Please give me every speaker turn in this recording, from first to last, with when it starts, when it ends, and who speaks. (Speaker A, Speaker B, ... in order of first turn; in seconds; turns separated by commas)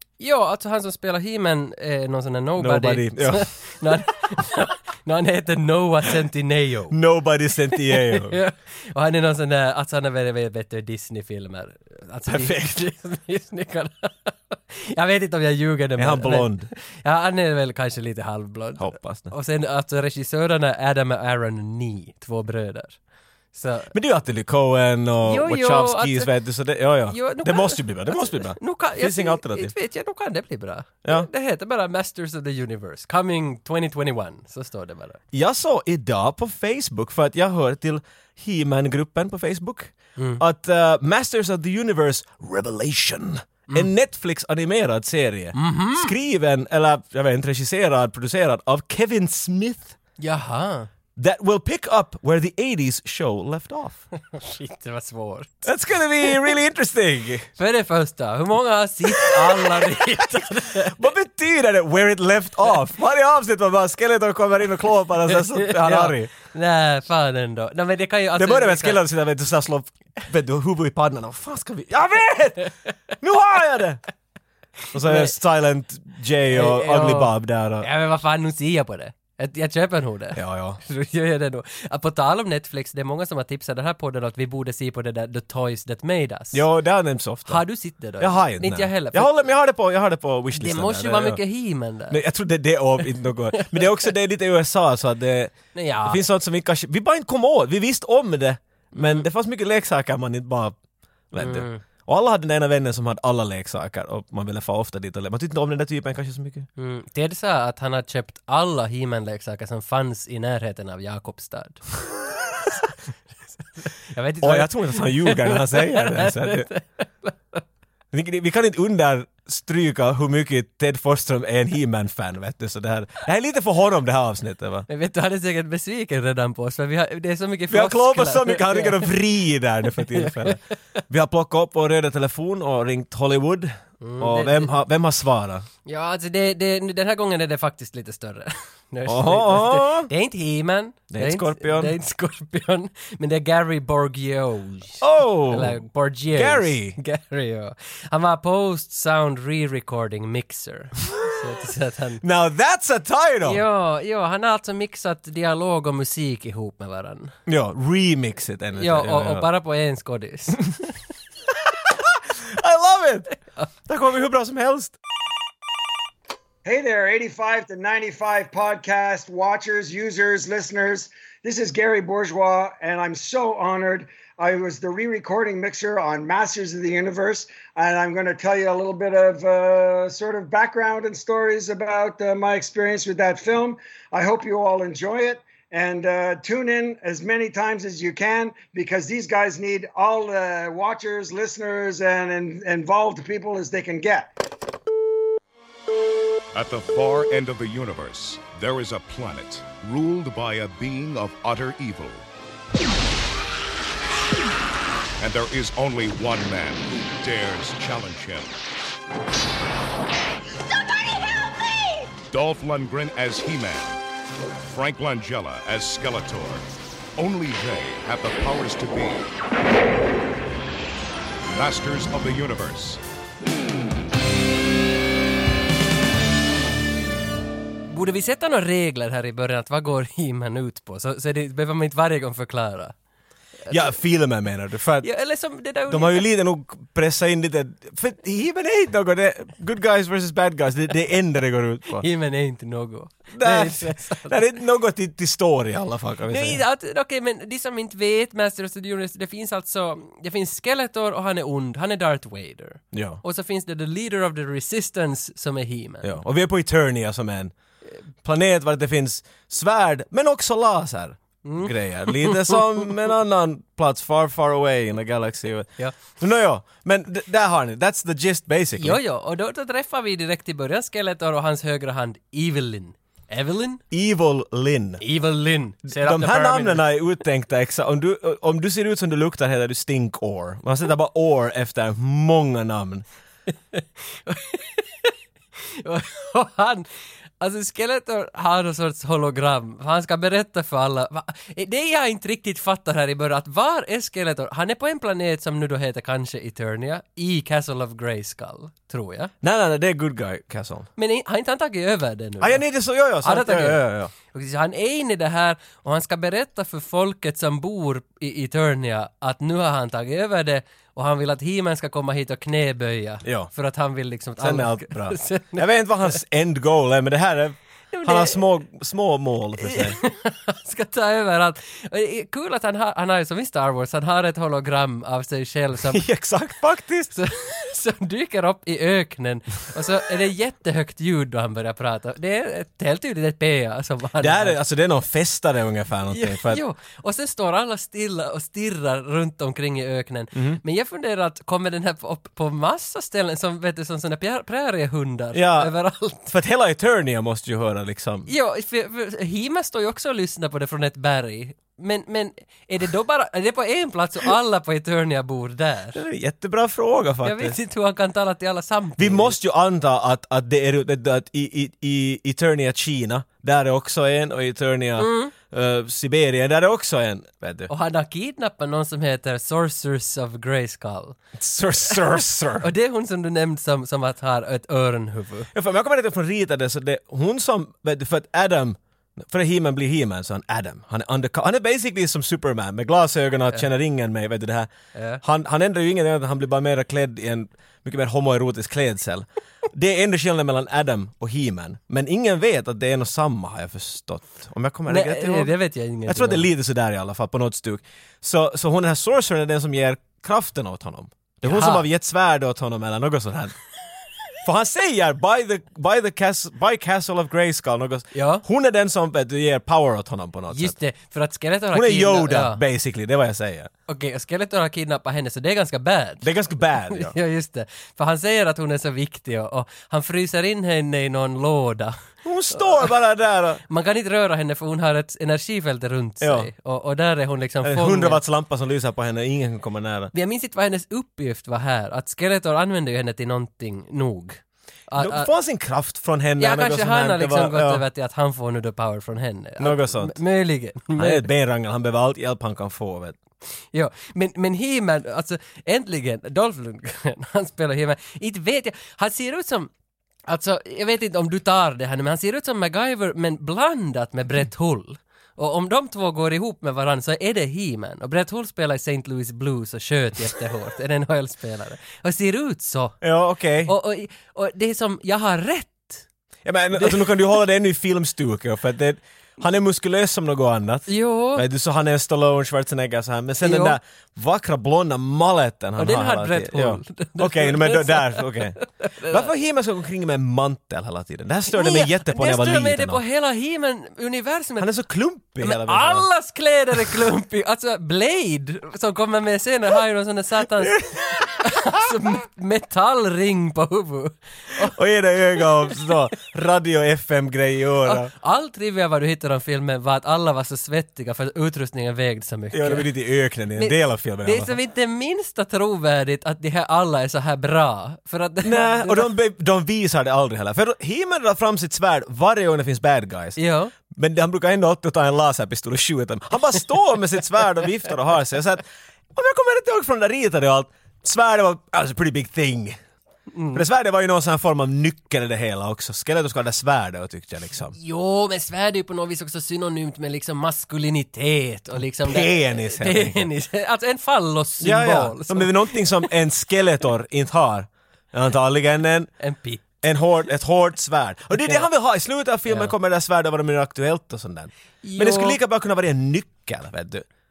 Speaker A: 0.2-7.0, Speaker B: 2.6-3.5, Speaker B: 6.9-8.4, Speaker A: 7.9-23.0, Speaker B: 12.3-12.8, Speaker B: 16.0-16.7, Speaker B: 18.8-19.3, Speaker A: 23.5-23.9, Speaker B: 23.9-29.7, Speaker A: 25.2-26.3, Speaker A: 27.1-35.2, Speaker B: 35.3-50.0, Speaker A: 40.2-40.4, Speaker A: 45.5-46.1, Speaker A: 50.2-50.9, Speaker B: 51.2-54.0, Speaker A: 54.3-55.7, Speaker B: 55.6-57.5, Speaker A: 57.6-61.0, Speaker B: 59.1-66.3, Speaker A: 65.3-69.0, Speaker B: 68.4-74.0, Speaker B: 74.9-77.9, Speaker A: 75.0-75.3, Speaker A: 76.5-86.6, Speaker B: 80.4-80.8, Speaker B: 86.5-87.6, Speaker A: 87.5-89.4, Speaker B: 88.2-91.4, Speaker A: 90.5-92.2, Speaker B: 92.1-100.8, Speaker A: 93.6-93.8, Speaker A: 95.7-96.2, Speaker A: 99.0-99.2, Speaker B: 101.3-106.7, Speaker A: 101.4-101.8, Speaker A: 106.8-112.0, Speaker A: 113.9-117.6, Speaker B: 114.4-116.7, Speaker B: 118.1-124.9, Speaker A: 124.9-129.1, Speaker B: 127.7-135.7, Speaker A: 130.0-130.7, Speaker A: 134.0-134.8, Speaker A: 135.8-152.2, Speaker B: 139.1-140.1, Speaker B: 141.1-141.9, Speaker B: 145.0-145.8, Speaker B: 146.3-147.0, Speaker B: 152.2-153.6, Speaker A: 153.4-157.3, Speaker B: 157.5-159.5, Speaker A: 158.8-160.9, Speaker B: 161.8-163.3, Speaker B: 163.9-165.0, Speaker C: 166.7-194.3, Speaker D: 196.5-202.2, Speaker D: 205.2-208.6, Speaker D: 212.3-214.0, Speaker D: 214.6-216.7, Speaker D: 217.2-219.3, Speaker D: 221.5-223.0, Speaker A: 227.9-232.9, Speaker B: 233.7-235.1, Speaker A: 235.0-236.3, Speaker B: 235.9-242.1, Speaker A: 242.0-244.4, Speaker B: 243.3-246.6, Speaker A: 246.3-256.2, Speaker B: 252.9-253.2, Speaker B: 256.0-257.5, Speaker B: 258.2-269.0, Speaker A: 261.4-262.6, Speaker A: 268.8-273.8, Speaker B: 273.9-275.0, Speaker A: 275.0-276.8, Speaker B: 275.9-283.1, Speaker A: 283.7-285.1, Speaker A: 285.6-286.9, Speaker A: 287.4-299.3, Speaker B: 299.4-300.9, Speaker A: 301.0-302.6, Speaker B: 302.4-304.1, Speaker A: 303.2-315.7, Speaker B: 313.2-313.5, Speaker B: 314.4-320.0, Speaker A: 317.9-318.4, Speaker A: 319.6-326.0, Speaker B: 325.9-327.1, Speaker A: 327.1-334.6, Speaker B: 334.2-336.6, Speaker A: 336.1-346.3, Speaker B: 340.3-340.6, Speaker B: 345.3-345.7, Speaker B: 346.3-348.3, Speaker A: 348.3-356.0, Speaker B: 355.9-357.6, Speaker A: 357.2-359.4, Speaker B: 359.0-367.7, Speaker A: 365.0-365.3, Speaker A: 367.7-371.2, Speaker B: 371.4-372.7, Speaker A: 372.6-375.5, Speaker B: 375.5-384.7, Speaker A: 384.9-385.2, Speaker B: 385.2-395.5, Speaker A: 394.9-396.5, Speaker B: 396.1-403.6, Speaker A: 401.4-401.9, Speaker B: 404.4-410.8, Speaker A: 408.1-408.4, Speaker A: 410.5-412.6, Speaker B: 411.7-413.7, Speaker A: 413.9-416.3, Speaker B: 416.2-417.1, Speaker A: 416.9-422.0, Speaker B: 422.2-423.6, Speaker A: 422.5-422.9, Speaker A: 423.7-428.2, Speaker B: 426.2-426.5, Speaker B: 427.6-430.1, Speaker A: 430.1-435.3, Speaker B: 435.0-437.8, Speaker A: 436.4-441.3, Speaker B: 439.6-440.2, Speaker B: 440.9-443.2, Speaker A: 443.7-449.7, Speaker A: 450.3-463.0, Speaker B: 463.0-463.7, Speaker A: 463.6-466.1, Speaker B: 466.4-483.0, Speaker A: 466.8-467.2, Speaker A: 470.9-471.4, Speaker A: 473.4-473.8, Speaker A: 475.8-479.3, Speaker A: 481.5-484.7, Speaker B: 484.6-486.1, Speaker A: 485.4-494.8, Speaker B: 490.6-491.3, Speaker B: 494.6-498.1, Speaker A: 495.4-495.9, Speaker A: 497.9-502.9, Speaker B: 502.5-504.6, Speaker A: 503.6-509.1, Speaker B: 508.4-513.4, Speaker A: 513.4-513.7, Speaker B: 513.9-522.8, Speaker A: 523.3-523.6, Speaker B: 523.5-527.8, Speaker A: 527.8-536.1, Speaker B: 532.0-533.3, Speaker B: 534.6-539.1, Speaker A: 539.2-539.6, Speaker B: 539.8-547.1, Speaker A: 541.4-541.7, Speaker A: 542.5-542.7, Speaker A: 544.8-545.4